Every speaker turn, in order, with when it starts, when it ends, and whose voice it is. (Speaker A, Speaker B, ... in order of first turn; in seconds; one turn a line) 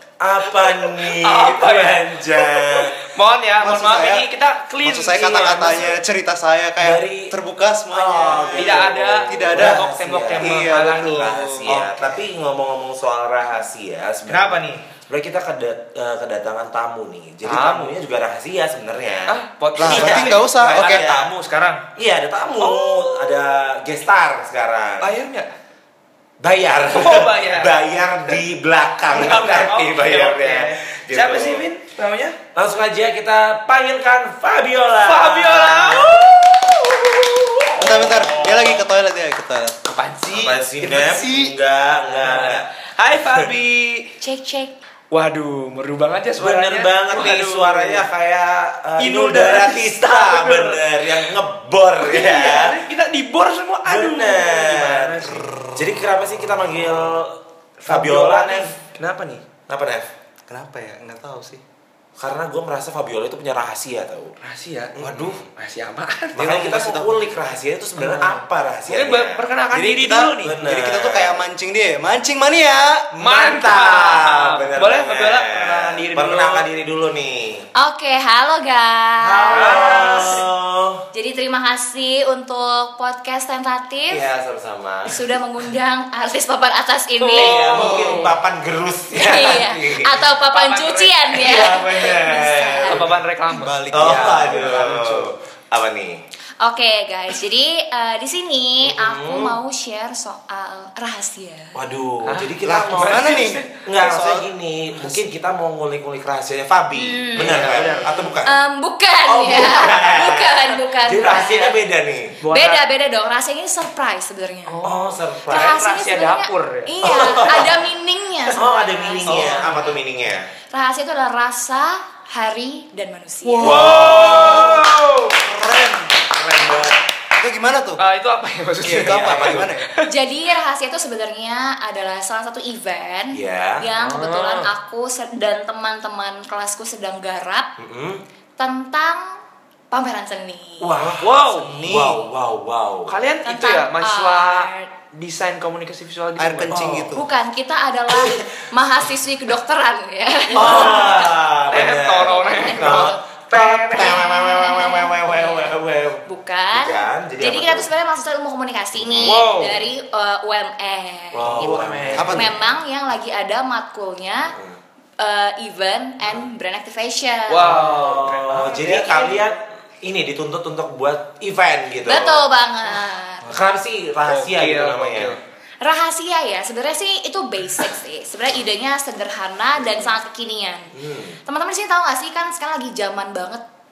Speaker A: 0.2-2.9
Speaker B: 0.5-6.0
Speaker C: 3.6-4.3
Speaker C: 4.8-12.2
Speaker A: 6.8-7.3
Speaker A: 7.9-21.3
Speaker B: 8.2-11.5
Speaker B: 14.3-14.8
Speaker B: 17.4-17.9
Speaker B: 19.3-21.8
Speaker C: 19.8-21.0
Speaker A: 21.9-25.1
Speaker B: 22.6-23.4
Speaker B: 25.0-25.5
Speaker A: 26.4-31.6
Speaker B: 26.9-28.4
Speaker B: 29.1-32.4
Speaker A: 32.5-36.4
Speaker B: 35.0-38.6
Speaker A: 37.7-38.8
Speaker C: 37.8-39.8
Speaker B: 39.9-41.3
Speaker A: 40.3-43.4
Speaker C: 40.9-41.6
Speaker B: 42.1-44.1
Speaker D: 44.2-44.7
Speaker B: 45.1-48.1
Speaker A: 46.4-52.8
Speaker B: 49.0-51.3
Speaker B: 52.0-55.5
Speaker A: 53.8-58.8
Speaker C: 55.3-56.1
Speaker B: 57.9-59.4
Speaker A: 59.7-60.1
Speaker C: 60.5-61.6
Speaker A: 62.2-64.3
Speaker B: 64.4-65.0
Speaker A: 65.0-65.5
Speaker C: 65.0-65.4
Speaker B: 65.5-66.5
Speaker C: 66.3-67.2
Speaker A: 66.3-69.4
Speaker B: 68.0-70.5
Speaker C: 69.7-73.1
Speaker A: 70.4-71.5
Speaker A: 73.1-77.7
Speaker B: 73.2-76.7
Speaker D: 77.8-80.3
Speaker A: 79.2-81.0
Speaker B: 79.5-80.4
Speaker D: 81.1-84.2
Speaker A: 84.1-85.2
Speaker D: 85.1-88.0
Speaker B: 87.2-88.3
Speaker A: 87.3-90.2
Speaker D: 89.1-93.0
Speaker B: 90.5-91.4
Speaker A: 91.3-93.1
Speaker B: 92.9-95.2
Speaker C: 93.5-95.3
Speaker A: 93.9-96.2
Speaker D: 96.6-101.8
Speaker A: 98.8-99.6
Speaker A: 101.7-108.6
Speaker B: 102.2-103.8
Speaker C: 102.6-105.2
Speaker D: 107.0-107.7
Speaker B: 107.3-108.4
Speaker D: 108.4-111.8
Speaker A: 109.2-112.4
Speaker B: 112.4-112.8
Speaker D: 112.5-114.8
Speaker B: 114.7-117.5
Speaker A: 114.8-115.8
Speaker D: 115.5-119.8
Speaker A: 117.0-117.8
Speaker A: 118.5-120.5
Speaker C: 119.2-119.8
Speaker B: 119.3-119.9
Speaker D: 120.7-123.8
Speaker C: 123.4-126.3
Speaker B: 123.6-125.4
Speaker A: 123.6-124.9
Speaker A: 126.3-127.0
Speaker C: 126.9-128.0
Speaker B: 128.0-130.1
Speaker C: 128.8-129.9
Speaker A: 128.9-129.7
Speaker D: 130.0-137.7
Speaker A: 133.3-133.9
Speaker B: 134.0-134.7
Speaker A: 137.8-138.2
Speaker D: 138.6-139.4
Speaker D: 139.9-140.9
Speaker A: 140.8-143.2
Speaker C: 141.0-142.2
Speaker B: 141.2-141.8
Speaker B: 143.1-146.9
Speaker D: 143.4-144.9
Speaker C: 146.4-147.2
Speaker A: 146.7-147.1
Speaker D: 147.1-151.3
Speaker A: 150.5-157.9
Speaker B: 150.6-151.1
Speaker B: 151.7-154.2
Speaker D: 152.2-153.2
Speaker D: 153.9-155.7
Speaker D: 156.2-164.5
Speaker A: 158.9-159.9
Speaker B: 159.2-159.8
Speaker A: 161.3-162.7
Speaker B: 161.4-162.5
Speaker C: 162.1-162.6
Speaker D: 165.2-167.8
Speaker B: 167.5-169.4
Speaker A: 167.6-172.4
Speaker D: 172.0-173.5
Speaker A: 173.5-175.4
Speaker B: 174.2-175.4
Speaker D: 175.8-180.9
Speaker A: 179.8-180.1
Speaker A: 180.9-181.4
Speaker D: 181.4-183.6